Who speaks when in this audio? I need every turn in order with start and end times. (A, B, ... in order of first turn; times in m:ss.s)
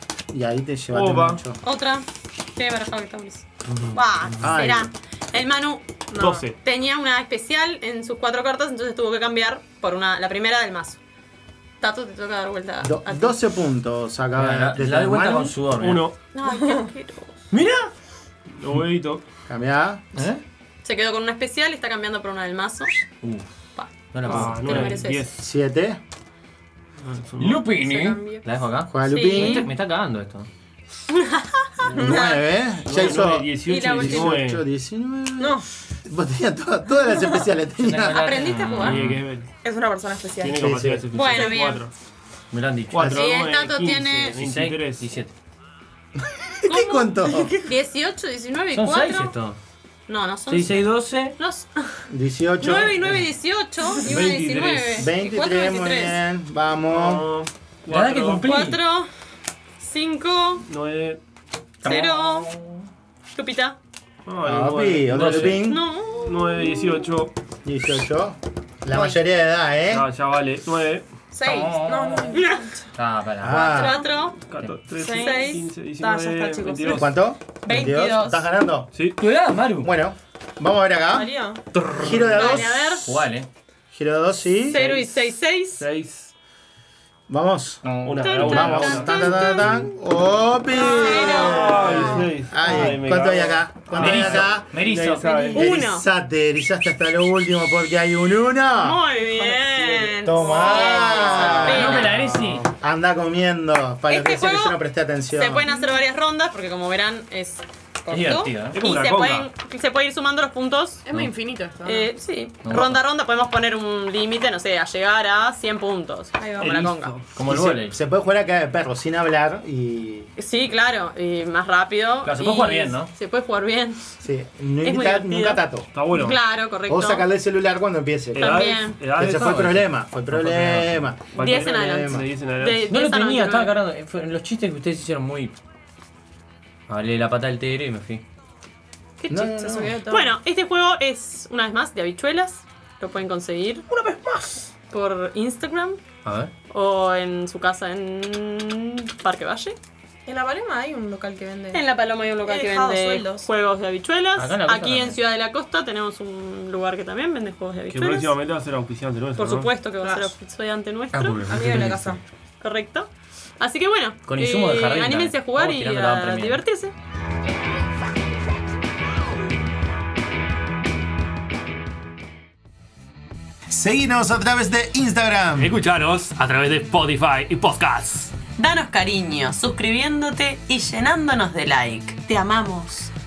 0:00.3-0:01.6 A
0:00.9-0:01.4 B
0:01.6-0:05.9 C
0:03.7-0:04.6 D
0:04.4-0:04.9 A
0:06.1-0:06.4 E
0:06.1-0:06.6 B
0:06.5-0:11.0 C
0:11.8-0:13.4 C
0:12.8-0:15.6 A
0:14.3-0:16.1 D
0:15.7-0:16.2 B
0:16.3-0:17.4 C
0:17.5-0:17.9 D
0:18.5-0:19.2 B
0:19.5-0:20.0 A
0:20.1-0:20.4 D
0:20.8-0:22.9 C
0:23.2-0:23.5 D
0:23.7-0:25.3 C
0:24.1-0:25.0 D
0:24.2-0:25.4 B
0:25.4-0:26.0 A
0:27.0-0:27.8 B
0:27.4-0:30.5 D
0:27.8-0:28.4 E
0:28.9-0:29.6 A
0:29.1-0:29.7 C
0:31.1-0:31.7 C
0:31.8-0:34.7 B
0:31.9-0:38.3 A
0:32.1-0:32.4 E
0:33.6-0:34.3 C
0:37.7-0:39.2 D
0:38.1-0:39.0 C
0:38.8-0:39.5 B
0:39.6-0:40.6 E
0:40.4-0:41.9 B
0:40.6-0:41.0 A
0:41.1-0:41.9 C
0:42.5-0:43.1 D
0:42.9-0:45.1 B
0:43.0-0:43.2 A
0:43.0-0:44.4 C
0:44.3-0:45.3 D
0:46.6-0:47.6 A
0:46.6-0:49.3 C
0:48.7-0:49.6 D
0:50.1-0:52.0 C
0:50.5-0:51.4 D
0:52.1-0:53.0 A
0:52.6-0:56.2 C
0:54.0-0:55.1 B
0:54.9-0:57.3 A
0:56.9-0:58.4 B
0:57.9-0:58.8 D
0:58.4-0:59.1 C
0:59.8-1:00.6 C
1:00.6-1:01.2 B
1:01.8-1:02.5 C
1:01.8-1:02.8 D
1:03.3-1:03.8 C
1:04.2-1:05.7 B
1:04.4-1:05.8 A
1:05.2-1:05.5 D
1:05.6-1:06.5 C
1:06.2-1:07.3 B
1:07.6-1:10.1 A
1:09.9-1:11.1 B
1:11.3-1:12.7 E
1:11.4-1:12.4 D
1:12.3-1:12.7 C
1:12.9-1:13.8 D
1:13.4-1:14.0 A
1:13.5-1:14.4 C
1:14.4-1:17.2 B
1:15.0-1:17.0 E
1:15.0-1:15.6 C
1:16.8-1:18.9 A
1:17.6-1:18.5 C
1:18.9-1:19.2 B
1:19.2-1:19.9 D
1:19.8-1:21.4 A
1:21.1-1:21.6 E
1:21.8-1:22.3 B
1:21.9-1:23.0 A
1:22.3-1:23.2 C
1:23.0-1:23.5 D
1:23.9-1:24.8 A
1:24.7-1:25.8 C
1:24.7-1:26.3 B
1:27.3-1:34.7 A
1:27.8-1:28.3 D
1:28.0-1:29.5 B
1:28.2-1:29.8 C
1:30.7-1:32.2 C
1:30.8-1:31.2 E
1:31.1-1:35.7 B
1:34.0-1:35.6 D
1:35.2-1:36.1 C
1:35.5-1:39.0 A
1:38.8-1:42.1 C
1:39.6-1:40.2 B
1:40.2-1:42.0 A
1:40.4-1:41.2 E
1:41.1-1:42.6 B
1:41.3-1:42.7 D
1:42.8-1:45.7 A
1:44.1-1:44.8 C
1:45.3-1:51.0 C
1:48.1-1:48.8 D
1:48.7-1:49.5 B
1:51.0-1:52.1 E
1:51.1-1:51.3 D
1:51.8-1:57.2 C
1:52.6-1:53.0 D
1:56.4-1:56.7 E
1:56.6-1:57.3 B
1:57.3-1:58.0 D
1:57.4-2:00.3 A
2:00.4-2:04.0 C
2:02.2-2:03.1 D
2:04.2-2:05.9 A
2:04.8-2:07.2 C
2:05.9-2:06.4 B
2:06.9-2:12.2 A
2:08.3-2:12.9 B
2:08.4-2:09.0 C
2:09.2-2:09.9 D
2:11.3-2:13.8 C
2:12.9-2:15.5 D
2:16.9-2:18.2 D
2:19.2-2:23.8 C
2:19.3-2:20.0 A
2:19.6-2:20.3 E
2:23.9-2:24.6 E
2:24.9-2:26.0 C
2:26.2-2:26.5 D
2:26.7-2:29.8 C
2:30.2-2:31.8 E
2:31.7-2:38.4 C
2:32.4-2:33.4 E
2:34.4-2:35.2 D
2:37.9-2:39.7 B
2:39.4-2:41.8 C
2:40.0-2:40.3 E
2:41.1-2:42.2 D
2:41.4-2:42.2 E
2:42.6-2:46.9 C
2:44.2-2:46.6 D
2:53.7-2:55.8 A
2:55.6-2:56.3 B
2:55.8-2:58.0 D
2:57.3-2:58.3 B
2:58.5-3:03.1 C